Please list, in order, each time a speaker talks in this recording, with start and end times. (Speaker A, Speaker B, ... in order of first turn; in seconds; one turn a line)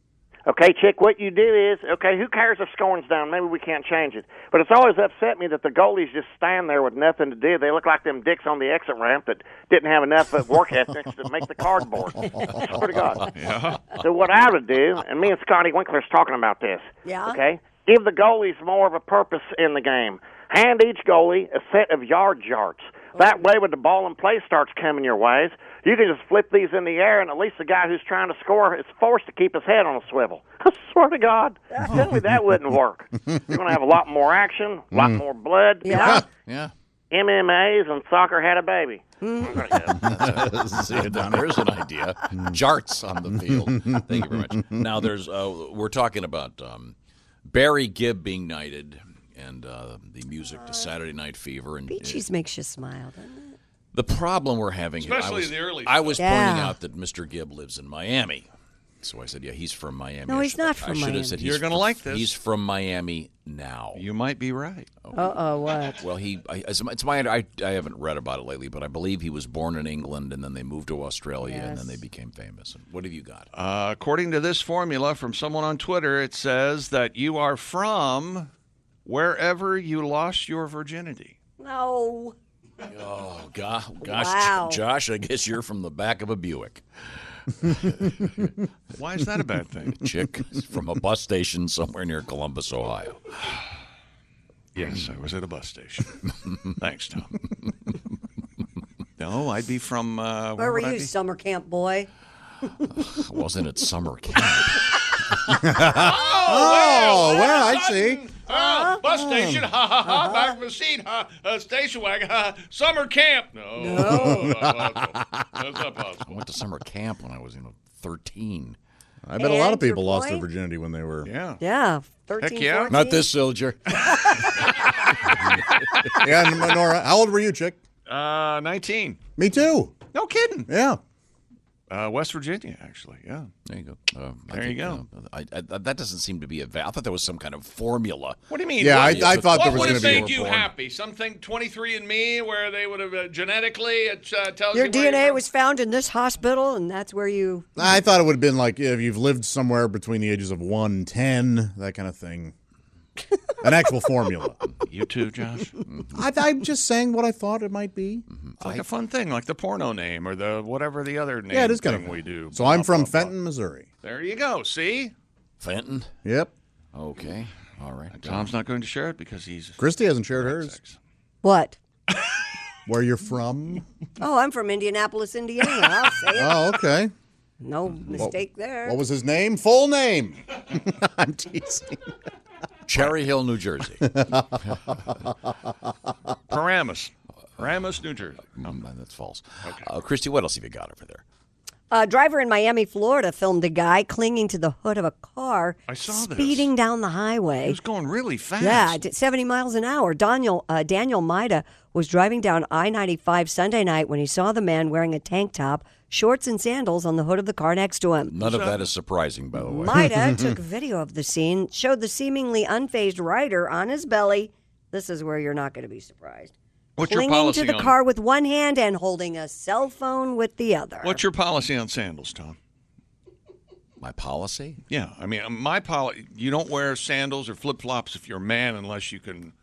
Speaker A: 0.5-13.3
Speaker B: 13.3-13.8
Speaker A: 13.9-36.2
Speaker C: 17.0-17.4
Speaker D: 34.9-35.2
Speaker C: 35.8-36.2
Speaker D: 35.9-36.2
Speaker E: 36.5-36.7
Speaker A: 37.1-40.1
Speaker C: 39.2-39.6
Speaker E: 39.8-52.2
Speaker D: 40.3-41.4
Speaker C: 50.5-50.9
Speaker C: 51.9-53.5
Speaker E: 53.9-58.5
Speaker B: 55.0-56.3
Speaker C: 56.2-56.8
Speaker E: 59.0-64.1
Speaker C: 60.3-61.5
Speaker B: 61.4-62.3
Speaker B: 64.0-64.9
Speaker E: 65.0-65.3
Speaker C: 65.1-66.0
Speaker E: 66.0-73.5
Speaker C: 71.4-72.0
Speaker B: 73.5-78.5
Speaker B: 79.0-81.3
Speaker C: 81.6-82.3
Speaker E: 82.8-86.8
Speaker C: 84.0-84.8
Speaker E: 87.4-88.5
Speaker B: 89.0-90.0
Speaker E: 89.9-93.2
Speaker B: 94.7-96.2
Speaker E: 94.8-95.1
Speaker B: 96.8-97.4
Speaker B: 99.2-101.1
Speaker C: 100.6-102.1
Speaker E: 102.9-105.6
Speaker D: 105.6-108.2
Speaker B: 105.9-116.4
Speaker C: 108.5-109.0
Speaker D: 109.0-109.7
Speaker C: 110.0-110.6
Speaker C: 113.8-114.5
Speaker D: 114.0-115.0
Speaker E: 116.2-118.8
Speaker D: 119.2-121.3
Speaker C: 119.3-120.5
Speaker B: 121.2-121.6
Speaker C: 121.6-123.3
Speaker B: 122.4-122.9
Speaker E: 122.9-124.1
Speaker D: 122.9-123.2
Speaker D: 126.2-127.8
Speaker B: 128.1-129.2
Speaker D: 129.4-130.0
Speaker B: 130.1-130.7
Speaker D: 130.7-131.0
Speaker B: 131.9-133.5
Speaker E: 133.7-140.4
Speaker B: 134.5-135.0
Speaker B: 138.5-145.4
Speaker D: 138.8-140.7
Speaker C: 144.7-147.7
Speaker D: 147.8-152.5
Speaker D: 153.6-154.6
Speaker B: 154.9-155.7
Speaker E: 155.9-156.1
Speaker D: 156.1-158.2
Speaker E: 158.3-158.8
Speaker B: 158.6-163.3
Speaker D: 161.5-163.9
Speaker B: 164.0-165.1
Speaker E: 165.6-166.1
Speaker D: 166.2-166.5
Speaker E: 166.9-168.5
Speaker B: 168.1-169.8
Speaker D: 169.8-170.8
Speaker B: 170.6-171.0
Speaker C: 171.4-171.8
Speaker D: 172.9-173.8
Speaker C: 174.2-176.6
Speaker D: 176.3-177.1
Speaker C: 177.6-179.0
Speaker D: 178.1-182.0
Speaker E: 182.8-185.1
Speaker D: 184.0-184.5
Speaker B: 186.5-188.5
Speaker E: 188.4-191.2
Speaker C: 191.9-197.8
Speaker B: 195.9-196.7
Speaker B: 197.6-199.0
Speaker C: 198.6-208.3
Speaker E: 208.3-210.1
Speaker B: 208.4-208.8
Speaker C: 209.7-216.5
Speaker D: 210.2-210.5
Speaker B: 217.0-217.9
Speaker C: 217.0-221.2
Speaker B: 221.0-222.6
Speaker E: 224.0-224.8
Speaker B: 224.9-229.5